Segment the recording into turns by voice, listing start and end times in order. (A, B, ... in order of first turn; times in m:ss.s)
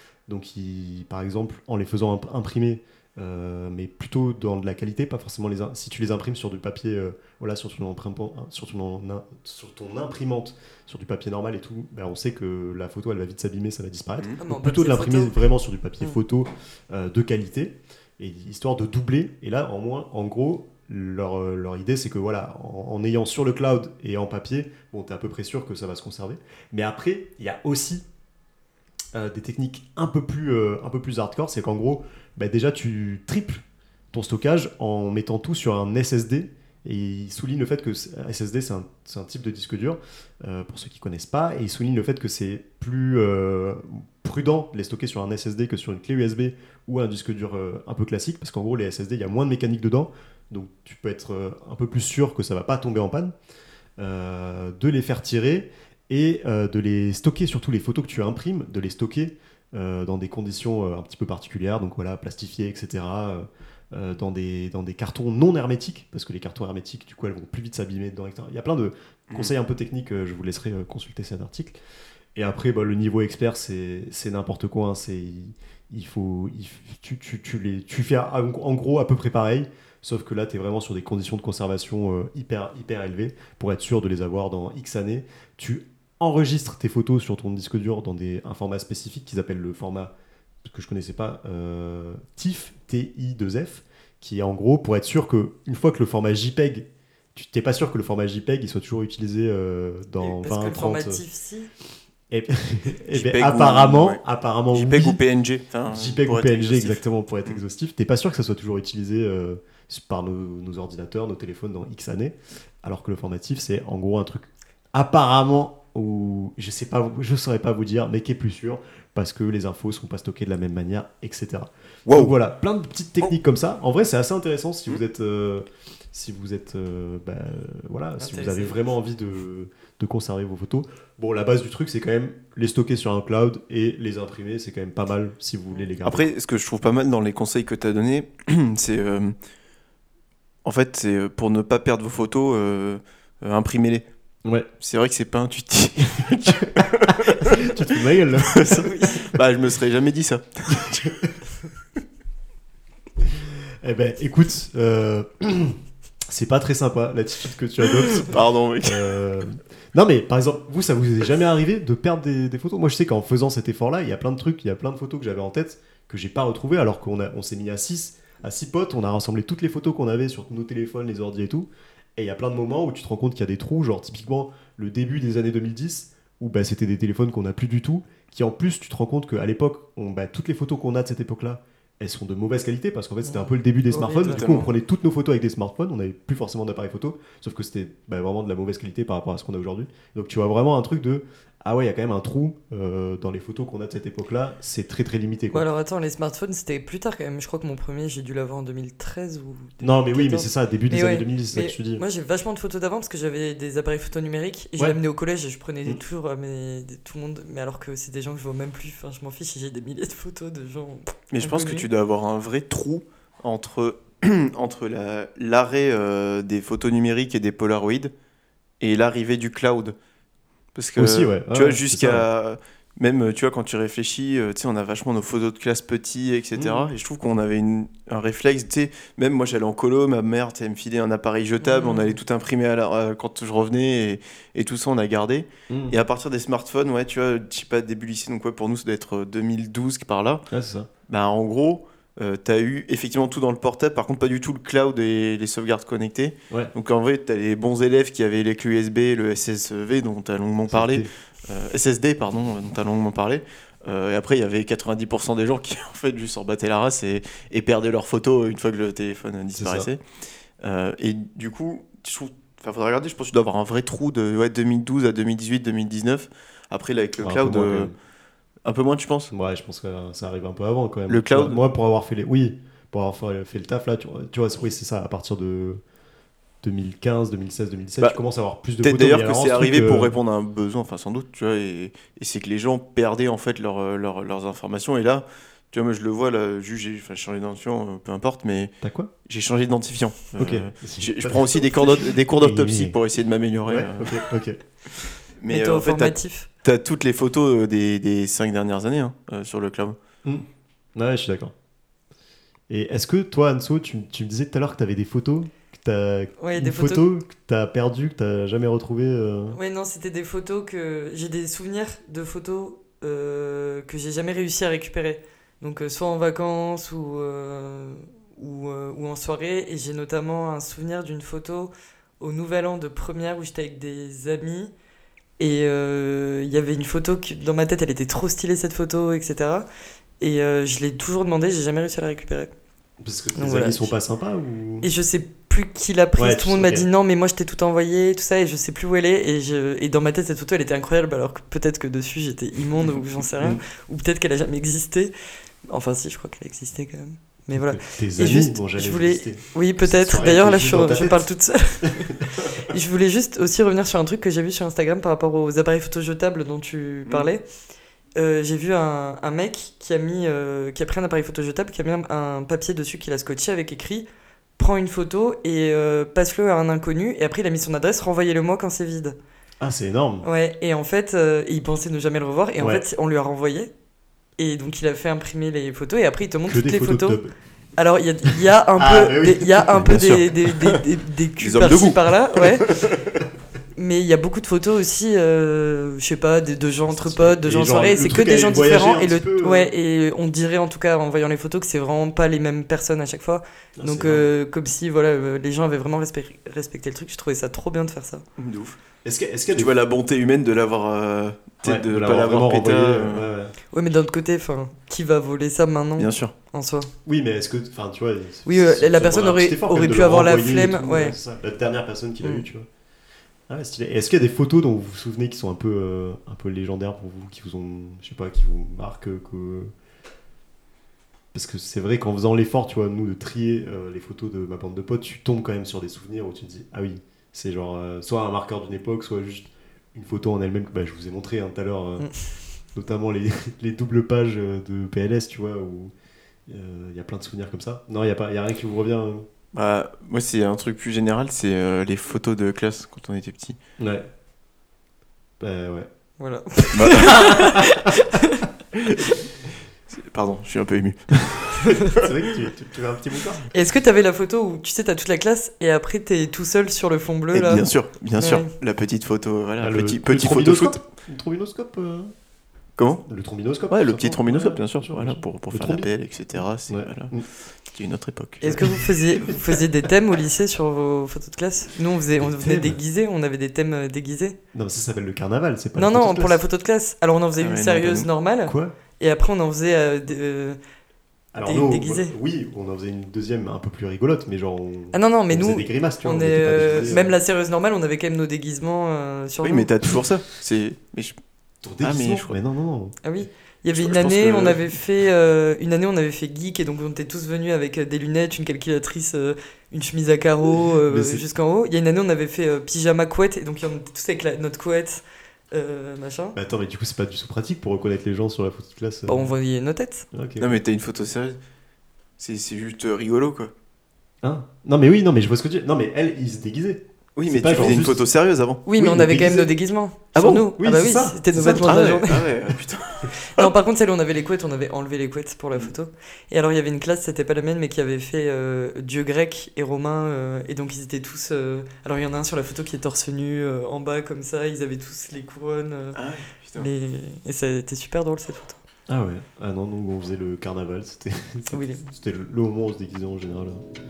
0:00.3-0:28.0 A
0:14.4-0:15.4 B
0:29.1-0:53.3 A
0:54.0-1:11.8 A
1:12.3-1:30.1 A
1:30.6-1:41.2 A
1:40.2-1:41.7 B
1:42.3-1:45.2 A
1:43.1-1:44.2 C
1:44.7-1:47.6 C
1:45.9-2:16.3 A
2:02.1-2:02.3 C
2:08.2-2:08.8 B
2:16.0-2:19.3 C
2:20.6-2:24.0 C
2:24.4-2:24.7 A
2:24.8-2:27.7 C
2:26.6-2:28.6 A
2:28.4-2:31.2 C
2:28.6-2:29.3 B
2:30.7-2:31.3 A
2:33.2-3:15.6 A
2:38.0-2:39.2 C
3:03.2-3:04.6 B
3:04.2-3:04.7 C
3:15.5-3:31.9 B
3:19.8-3:22.0 A
3:31.3-3:38.1 C
3:38.8-3:40.0 C
3:40.7-4:00.4 C
3:41.0-3:42.2 A
3:46.5-3:46.9 A
3:51.6-3:52.2 B
3:55.7-3:55.9 A
4:00.5-4:00.9 A
4:01.1-4:20.0 C
4:10.7-4:11.1 A
4:19.6-4:19.9 A
4:20.6-4:27.9 C
4:27.2-4:27.9 A
4:28.6-4:29.3 C
4:29.3-4:35.8 A
4:31.1-4:31.6 C
4:36.6-4:40.1 A
4:38.8-4:54.3 C
4:48.8-4:49.1 A
4:50.4-4:53.0 A
4:53.7-4:54.6 A
4:55.4-5:00.0 C
4:55.5-4:56.5 B
5:00.2-5:01.5 A
5:02.7-5:09.6 A
5:06.4-5:07.0 B
5:09.5-5:24.7 B
5:25.4-5:29.6 B
5:30.2-5:32.5 B
5:33.0-5:34.9 A
5:33.4-5:33.9 B
5:34.8-5:45.1 B
5:36.2-5:36.9 A
5:45.7-5:57.4 B
5:47.5-5:51.3 A
5:51.8-5:52.5 A
5:58.2-6:04.0 B
6:04.6-6:09.2 B
6:09.6-6:10.3 A
6:10.2-6:13.7 B
6:12.6-6:12.8 A
6:14.4-6:17.2 B
6:16.5-6:17.3 A
6:17.8-6:22.7 B
6:18.8-6:20.2 A
6:19.8-6:20.8 C
6:21.4-6:23.2 C
6:23.8-6:38.2 B
6:26.9-6:29.7 A
6:33.8-6:34.3 A
6:38.4-6:38.8 C
6:39.0-6:39.7 A
6:39.5-6:43.3 C
6:41.6-6:43.5 A
6:43.7-6:46.9 B
6:46.0-6:46.3 C
6:47.0-6:52.7 A
6:48.4-6:51.2 B
6:53.5-6:59.7 A
7:01.3-7:12.1 A
7:12.7-7:15.9 A
7:16.5-7:19.2 A
7:19.5-7:23.6 C
7:23.8-7:24.0 A
7:25.4-7:25.9 A
7:26.2-7:28.5 B
7:26.7-7:27.4 C
7:27.0-7:27.9 A
7:29.9-7:32.0 C
7:31.8-7:33.5 A
7:33.5-7:38.5 B
7:37.3-7:40.8 C
7:39.6-7:42.1 A
7:42.8-7:43.0 C
7:43.0-7:45.9 A
7:43.7-7:48.6 C
7:46.7-7:47.2 A
7:48.4-7:54.4 B
7:48.5-7:49.4 A
7:52.2-7:52.8 A
7:54.5-7:56.4 A
7:55.8-8:00.6 B
7:57.4-7:58.1 C
7:58.4-7:58.7 A
8:01.3-8:07.1 A
8:01.4-8:02.1 B
8:04.9-8:09.7 B
8:09.4-8:11.2 C
8:11.6-8:13.0 A
8:11.8-8:12.3 C
8:13.0-8:26.4 B
8:13.7-8:14.6 C
8:20.9-8:21.2 A
8:26.3-8:29.3 A
8:29.1-8:30.0 B
8:30.1-8:30.6 A
8:30.4-8:31.4 C
8:32.2-8:33.5 C
8:34.2-8:38.0 A
8:37.2-8:38.6 C
8:38.6-8:42.3 B
8:38.8-8:39.5 A
8:40.2-8:42.0 A
8:41.4-8:43.5 C
8:43.3-8:56.0 B
8:55.9-8:56.7 C
8:56.6-8:58.6 B
8:58.9-9:03.6 A
9:01.5-9:01.8 B